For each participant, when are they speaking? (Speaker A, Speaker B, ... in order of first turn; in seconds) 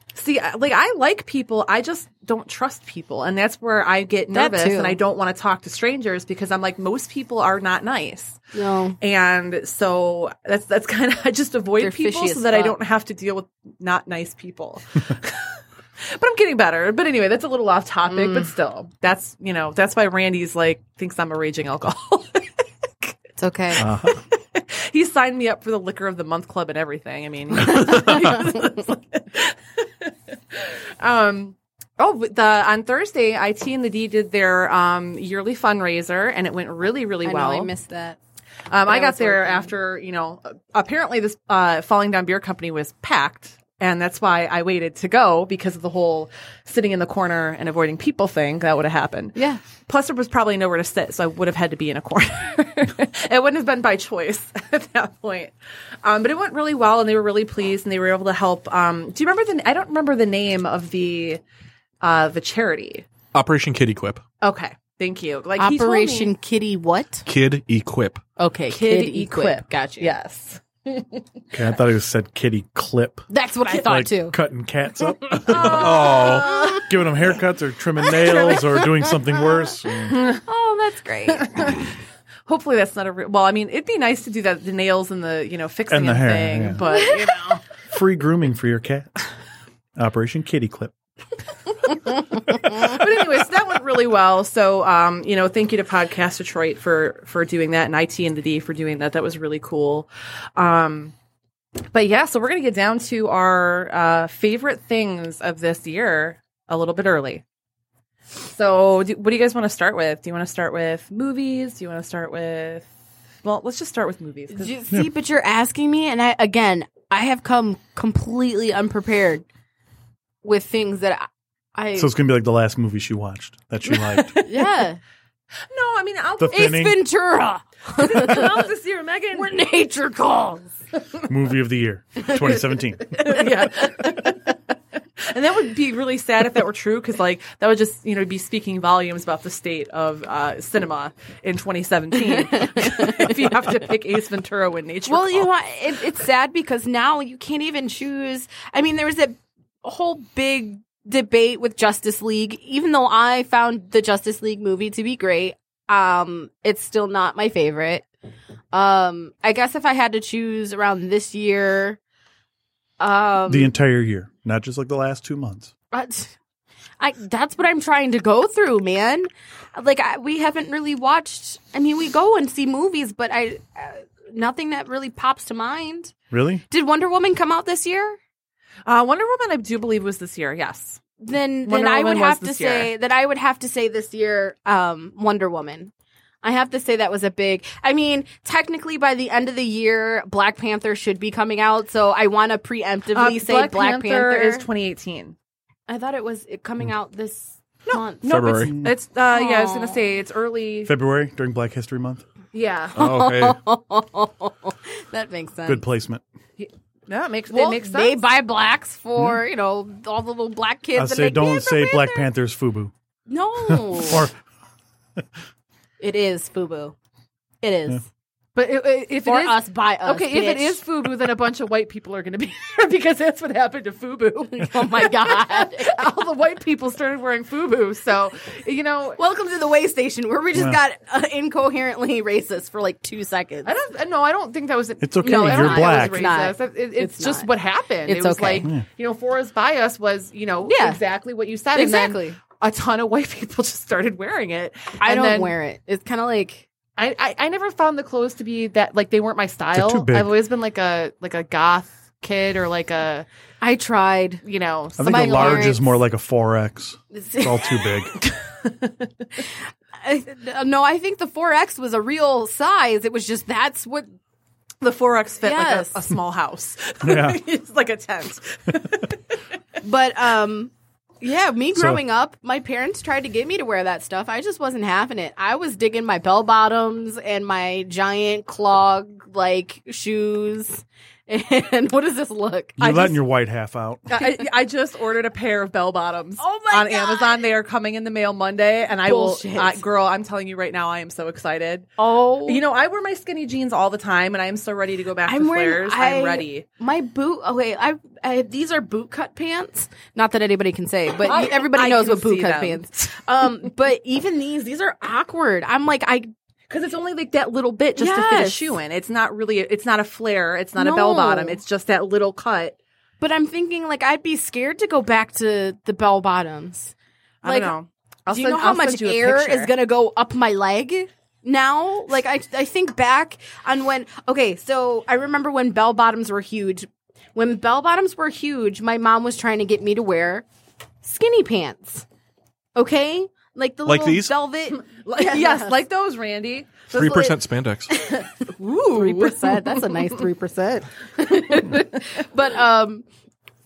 Speaker A: 0.1-8.4, 9.0-23.1, 23.8-37.7, 38.7-55.5, 56.0-61.4, 62.0-63.1, 64.4-66.3, 68.7-71.2, 75.5-76.8, 78.2-78.6, 80.1-80.4, 81.3-81.8, 82.5-87.6, 92.7-101.1, 101.9-107.4, 108.4-112.9, 113.4-114.7, 123.9-124.7, 125.7-126.8, 128.0-129.5, 133.1-134.6, 135.3-145.5, 178.8-181.0, 181.7-182.9, 193.1-195.3, 197.8-200.9, 202.5-202.9, 206.6-208.2, 218.6-229.2, 233.6-245.5, 247.0-253.3, 254.4-255.8, 258.2-258.9, 264.8-269.2, 282.8-283.2, 284.1-291.9, 292.4-296.6, 301.2-302.8, 306.7-312.8, 317.4-319.7, 334.9-337.4, 338.0-340.1
Speaker B: 4.3-5.0, 8.5-9.0, 11.8-12.7, 23.4-23.8, 28.1-28.6, 37.2-38.2, 38.8-39.7, 49.4-49.6, 65.6-67.2, 68.4-70.1, 73.3-74.4, 75.6-76.8, 78.0-78.5, 80.2-81.8, 86.8-87.4, 114.5-119.4, 120.4-122.1, 124.4-125.0, 126.5-128.6, 129.3-130.7, 142.3-143.3, 145.1-158.0, 158.7-162.0, 163.0-163.7, 165.9-166.3, 167.0-176.1, 176.7-178.2, 181.2-185.9, 186.4-194.7, 195.9-198.2, 199.3-200.1, 202.9-205.8, 207.5-212.3, 213.3-214.3, 216.0-216.9, 217.6-218.0, 219.2-220.8, 224.5-226.0, 229.2-233.7, 235.2-237.5, 238.1-238.7, 240.7-241.0, 241.7-242.4, 245.0-246.6, 253.6-254.4, 255.0-255.8, 257.1-257.7, 260.0-264.1, 265.4-265.9, 269.8-282.8, 286.4-287.4, 289.1-289.8, 292.0-292.6, 295.3-306.3, 308.0-308.7, 310.8-311.6, 313.2-316.9, 317.4-317.7, 318.3-330.4, 331.0-332.0, 332.7-335.7, 337.9-343.0
Speaker C: 23.8-24.2, 71.5-73.2, 73.8-76.3, 76.9-80.1, 85.9-86.8, 87.9-89.1, 90.0-90.9, 122.0-124.3, 126.4-127.0, 131.3-133.3, 163.5-165.7, 176.3-176.6, 200.8-202.2, 205.7-206.2, 210.9-212.9, 213.6-214.3, 235.0-236.3, 249.7-250.3, 255.0-258.1, 267.0-267.4, 271.7-272.0, 282.8-284.1, 333.8-334.3
Speaker D: 63.3-64.2, 67.2-68.2, 75.8-76.4, 198.2-198.8, 202.9-203.6, 336.9-337.9